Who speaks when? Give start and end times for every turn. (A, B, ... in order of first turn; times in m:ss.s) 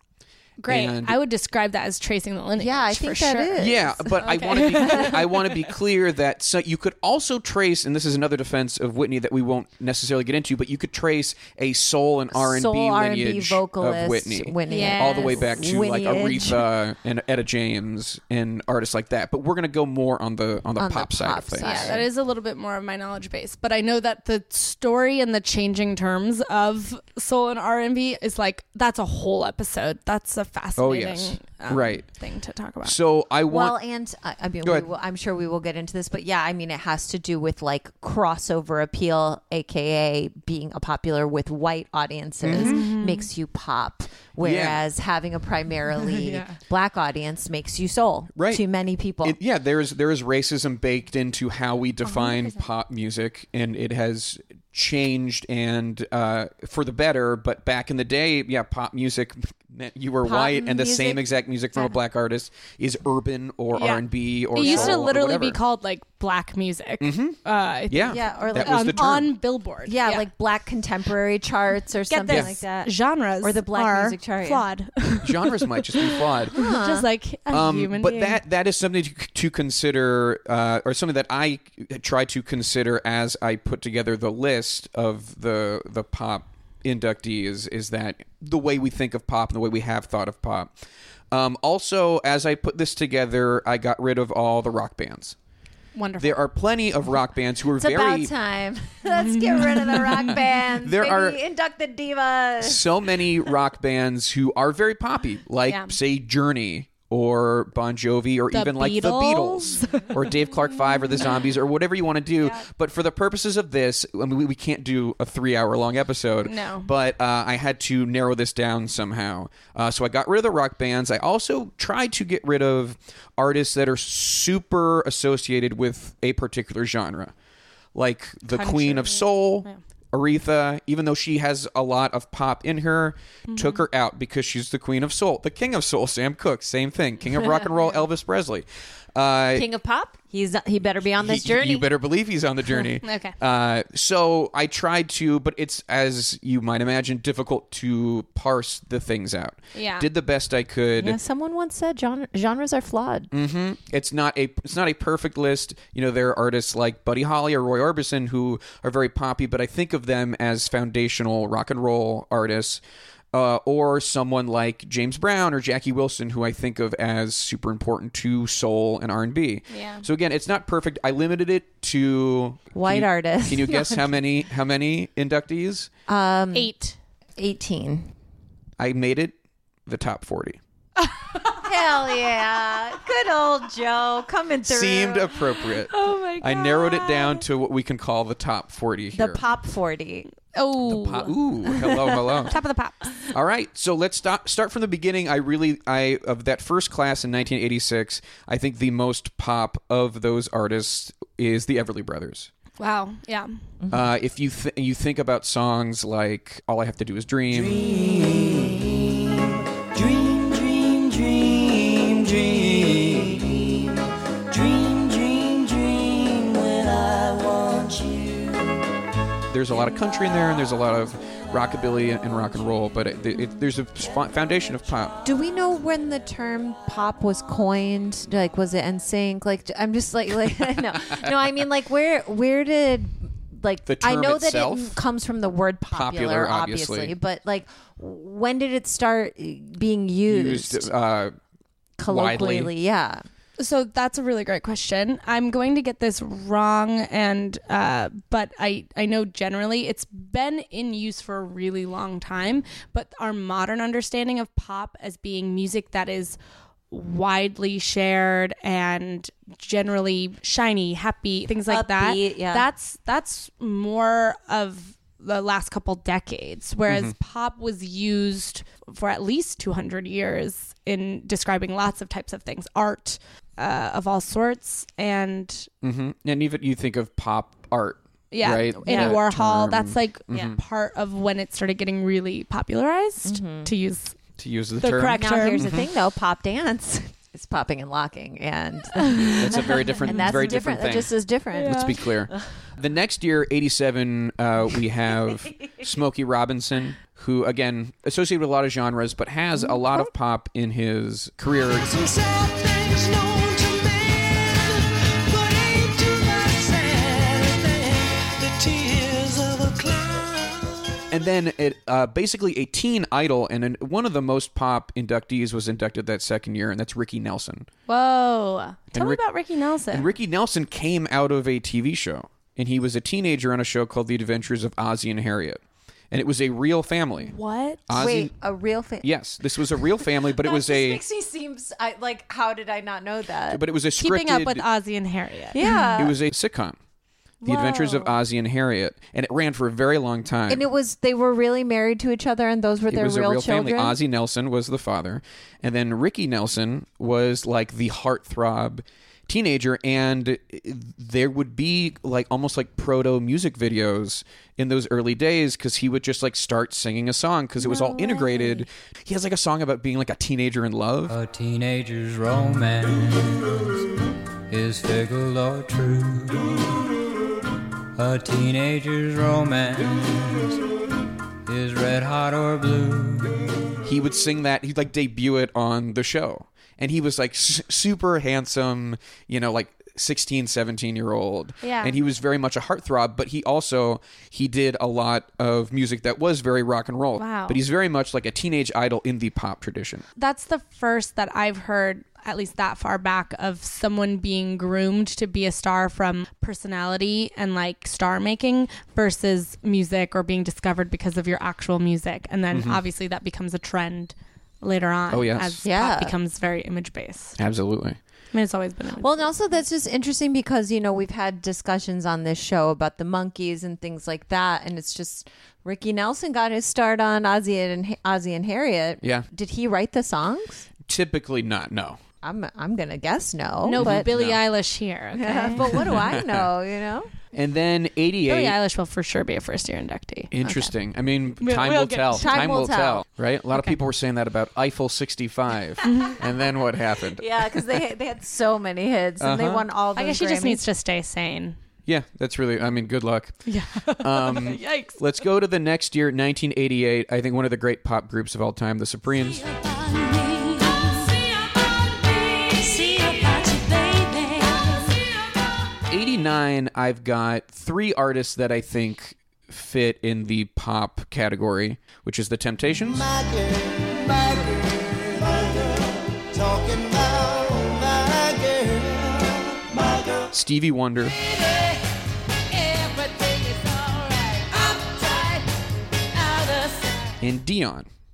0:00.6-0:03.6 A
0:00.7-0:01.2 B
0:02.6-0:05.2 C
0:03.6-0:22.0 B
0:04.2-0:05.4 A
0:12.3-0:16.7 C
0:14.7-0:15.6 A
0:20.8-0:22.1 C
0:21.6-0:33.0 A
0:30.8-0:32.1 B
0:32.8-0:33.8 B
0:33.5-0:49.4 C
0:34.6-0:34.9 B
0:42.4-0:42.8 B
0:42.5-0:43.3 A
0:44.4-0:44.8 B
0:46.0-0:46.6 A
0:48.4-0:48.6 B
0:49.2-1:05.6 B
0:52.0-0:52.6 A
1:00.2-1:01.2 C
1:03.7-1:04.0 A
1:04.5-1:10.3 A
1:04.6-1:05.0 C
1:07.0-1:07.4 B
1:07.9-1:09.3 B
1:08.1-1:09.1 C
1:09.9-1:14.7 C
1:12.1-1:18.4 A
1:12.3-1:12.6 B
1:15.2-1:16.6 B
1:16.5-1:17.1 C
1:17.5-1:30.7 B
1:31.3-1:35.4 B
1:36.0-1:36.4 A
1:36.2-1:38.3 B
1:37.8-1:42.9 C
1:39.2-1:40.2 A
1:40.8-1:41.4 B
1:42.6-2:07.3 B
1:45.7-1:46.0 A
1:48.5-1:50.2 A
1:56.4-1:56.9 A
2:08.0-2:19.7 B
2:08.5-2:09.8 A
2:13.5-2:13.8 A
2:19.5-2:21.9 C
2:21.2-2:31.2 B
2:23.0-2:23.4 A
2:29.7-2:30.1 A
2:31.0-2:33.3 C
2:33.3-2:42.8 B
2:43.3-2:55.9 B
2:49.7-2:50.0 A
2:52.8-2:54.0 C
2:56.1-2:56.7 C
2:56.5-2:57.0 A
2:57.4-2:58.1 C
2:58.8-2:59.3 B
2:59.9-3:00.6 B
3:01.6-3:05.4 C
3:04.7-3:09.4 B
3:05.9-3:07.4 A
3:09.1-3:10.3 C
3:10.5-3:11.8 A
3:10.8-3:12.6 B
3:12.4-3:13.0 A
3:13.3-3:22.5 B
3:22.8-3:23.6 A
3:23.9-3:27.9 B
3:27.5-3:38.8 D
3:39.5-3:45.1 B
3:45.2-4:00.9 C
3:53.9-3:55.0 B
3:55.9-3:57.1 B
4:00.3-4:01.4 B
4:02.0-4:03.2 C
4:02.1-4:02.7 B
4:03.6-4:16.4 A
4:16.9-4:35.7 A
4:21.7-4:22.7 C
4:26.9-4:27.2 B
4:35.8-4:40.6 B
4:38.3-4:44.2 A
4:38.9-4:39.2 C
4:43.2-4:43.7 C
4:44.4-4:45.9 B
4:44.8-4:45.6 A
4:45.1-4:52.0 C
4:49.4-5:01.9 B
4:51.6-4:51.9 A
4:59.6-5:00.1 C
5:01.6-5:11.0 D
5:11.1-5:17.7 B
5:17.9-5:20.1 A
5:18.9-5:19.2 B
5:19.9-5:27.4 B
5:27.2-5:27.8 A
5:27.9-5:28.3 B
5:27.9-5:29.1 C
5:29.0-5:31.0 B
5:30.2-5:33.6 C
5:33.5-5:34.6 B
5:34.0-5:35.6 A
5:35.5-5:36.2 C
5:35.6-5:36.8 B
5:37.4-5:38.2 A
5:37.4-5:40.6 B
5:40.5-5:44.0 C
5:42.9-6:01.2 B
5:57.6-5:58.7 C
6:01.1-6:03.9 E
6:04.5-6:07.0 E
6:08.0-6:10.6 E
6:11.5-6:13.4 E
6:13.9-6:30.1 B
6:21.6-6:22.0 A
6:27.2-6:27.6 A
6:30.2-6:47.4 A
6:42.5-6:42.8 B
6:45.1-6:45.6 B
6:45.6-6:46.2 C
6:47.4-6:48.0 B
6:48.3-6:49.3 A
6:49.0-7:00.7 C
6:59.0-6:59.3 B
7:00.9-7:02.0 B
7:02.2-7:04.1 C
7:03.6-7:05.9 A
7:03.8-7:04.4 B
7:05.2-7:07.1 C
7:05.8-7:06.5 B
7:07.3-7:08.6 B
7:08.3-7:10.7 A
7:10.3-7:17.6 B
7:11.4-7:12.4 A
7:12.1-7:13.1 C
7:15.8-7:16.2 A
7:17.2-7:20.6 C
7:19.2-7:19.7 B
7:20.0-7:21.6 A
7:21.9-7:29.4 B
7:23.5-7:25.0 A
7:30.0-7:35.1 D
7:35.9-7:43.1 B
7:42.8-7:50.3 D
7:50.3-7:51.2 B
7:51.3-7:51.7 D
7:52.5-7:55.5 D
7:56.1-7:57.1 D
7:57.2-7:57.9 B